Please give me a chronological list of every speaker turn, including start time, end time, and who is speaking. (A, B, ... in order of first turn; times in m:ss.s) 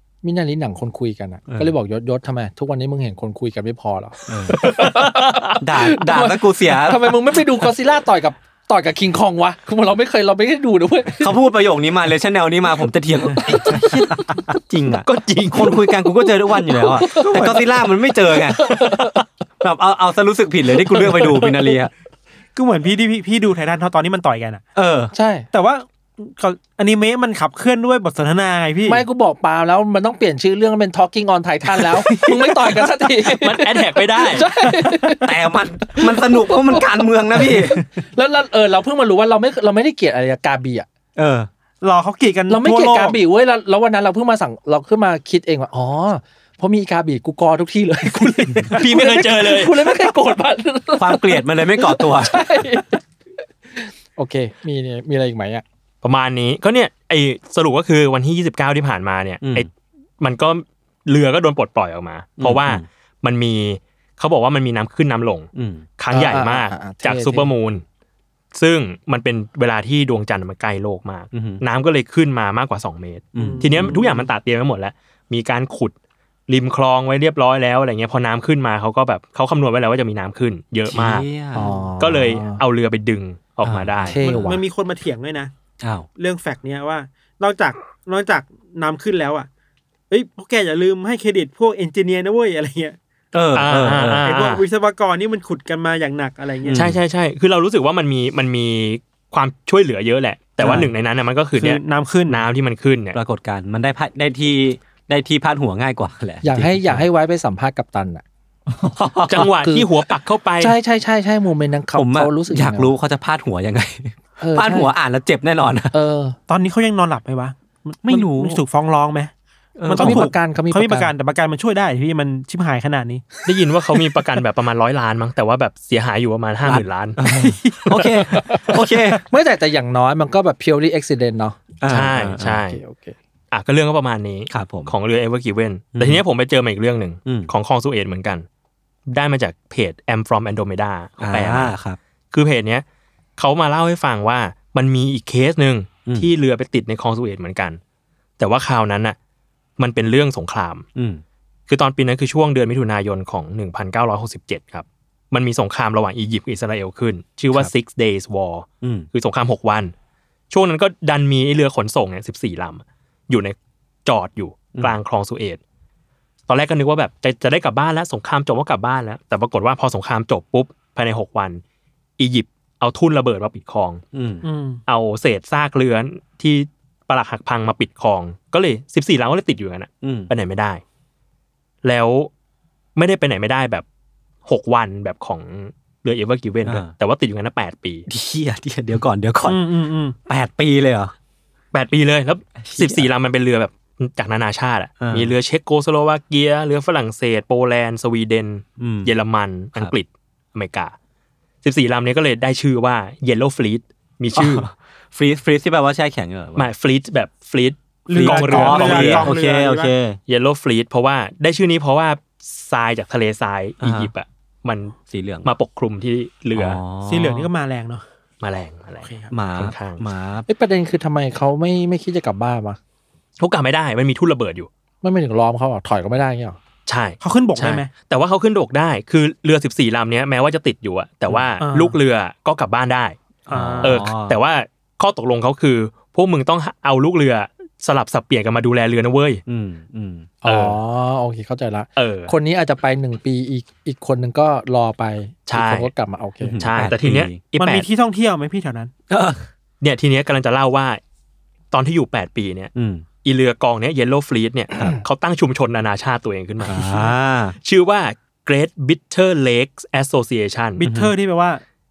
0:00.2-0:11.4 A
0:01.5-0:01.7 B
0:04.3-0:04.6 B
0:04.6-0:05.5 C
0:05.6-0:07.4 B
0:11.2-0:19.0 B
0:13.5-0:14.2 D
0:15.0-0:16.0 C
0:16.7-0:17.6 A
0:17.1-0:17.8 D
0:18.3-0:19.2 A
0:19.6-0:21.9 B
0:20.8-0:21.7 A
0:22.5-0:24.6 D
0:24.8-0:25.1 B
0:25.1-0:25.5 A
0:25.5-0:29.0 D
0:28.8-0:40.9 A
0:31.8-0:32.9 B
0:33.2-0:34.5 C
0:34.6-0:37.9 B
0:41.2-0:41.5 B
0:41.8-0:43.2 D
0:42.5-0:53.0 A
0:48.7-0:50.1 C
0:51.0-0:52.4 B
0:53.7-0:55.6 A
0:56.0-0:59.7 C
0:59.4-0:59.7 B
1:00.2-1:05.5 C
1:02.4-1:02.8 B
1:05.5-1:05.8 B
1:06.0-1:07.8 C
1:06.1-1:07.5 A
1:08.5-1:15.9 C
1:11.3-1:11.6 B
1:13.3-1:14.0 B
1:13.4-1:14.3 D
1:16.5-1:21.2 C
1:20.9-1:21.9 B
1:21.5-1:22.6 A
1:22.0-1:24.2 C
1:23.6-1:24.4 B
1:24.0-1:24.6 A
1:24.2-1:25.5 D
1:25.8-1:26.1 B
1:26.2-1:29.5 D
1:30.1-1:33.0 D
1:33.3-1:34.3 B
1:33.5-1:34.6 C
1:34.2-1:36.8 D
1:36.6-1:37.0 B
1:36.7-1:43.2 C
1:40.6-1:40.9 B
1:41.6-1:42.4 D
1:43.1-1:47.0 B
1:46.4-1:48.2 A
1:48.7-1:49.5 B
1:49.3-1:50.8 C
1:49.6-1:49.9 A
1:50.6-1:52.9 A
1:51.9-1:55.9 B
1:54.4-1:54.9 A
1:55.9-1:56.4 A
1:56.5-1:59.3 D
1:58.1-1:58.6 B
1:59.8-2:00.3 B
1:59.9-2:03.3 D
1:59.9-2:01.1 A
2:03.4-2:07.2 C
2:06.6-2:09.2 B
2:07.2-2:08.4 D
2:08.3-2:11.6 A
2:11.8-2:12.6 B
2:11.9-2:12.8 C
2:12.7-2:13.1 A
2:13.5-2:18.4 C
2:14.5-2:14.9 B
2:15.9-2:16.2 B
2:17.2-2:17.5 B
2:19.1-2:21.7 C
2:21.2-2:22.0 B
2:22.3-2:22.8 C
2:23.4-2:27.8 C
2:28.4-2:29.2 C
2:29.8-2:30.8 C
2:30.9-2:31.2 B
2:31.7-2:39.9 C
2:38.8-2:39.1 B
2:40.5-2:45.6 C
2:46.5-2:51.6 C
2:52.2-2:54.0 C
2:54.1-2:54.4 B
2:54.4-2:54.8 D
2:54.9-3:00.8 C
3:00.0-3:00.3 B
3:01.8-3:02.3 C
3:03.0-3:03.8 C
3:04.4-3:08.0 C
3:06.6-3:06.9 B
3:08.1-3:09.6 B
3:09.4-3:10.2 D
3:10.2-3:11.1 B
3:11.7-3:20.9 C
3:12.6-3:13.1 B
3:15.0-3:15.3 B
3:18.8-3:19.1 B
3:21.6-3:24.7 C
3:24.3-3:26.7 B
3:26.6-3:29.3 C
3:28.1-3:29.9 D
3:28.1-3:30.2 B
3:30.3-3:36.8 C
3:33.8-3:34.1 B
3:35.1-3:35.5 B
3:36.5-3:37.5 B
3:37.0-3:38.0 D
3:38.4-3:40.0 C
3:39.0-3:39.3 D
3:39.3-3:40.5 B
3:40.5-3:42.8 A
3:43.4-3:44.7 C
3:45.0-3:46.6 A
3:46.8-3:53.2 C
3:47.2-3:47.9 D
3:51.6-3:52.0 D
3:53.5-3:54.1 D
3:53.5-3:54.4 B
3:53.8-3:59.4 C
3:59.5-4:00.3 B
4:00.4-4:06.6 A
4:00.4-4:00.8 C
4:02.0-4:02.3 C
4:05.5-4:05.9 C
4:06.4-4:07.4 B
4:06.6-4:07.8 C
4:07.6-4:08.9 D
4:09.1-4:09.4 B
4:09.8-4:11.0 C
4:11.7-4:12.7 C
4:12.7-4:13.0 B
4:13.2-4:20.8 C
4:16.6-4:17.6 B
4:20.8-4:21.6 D
4:20.8-4:21.1 B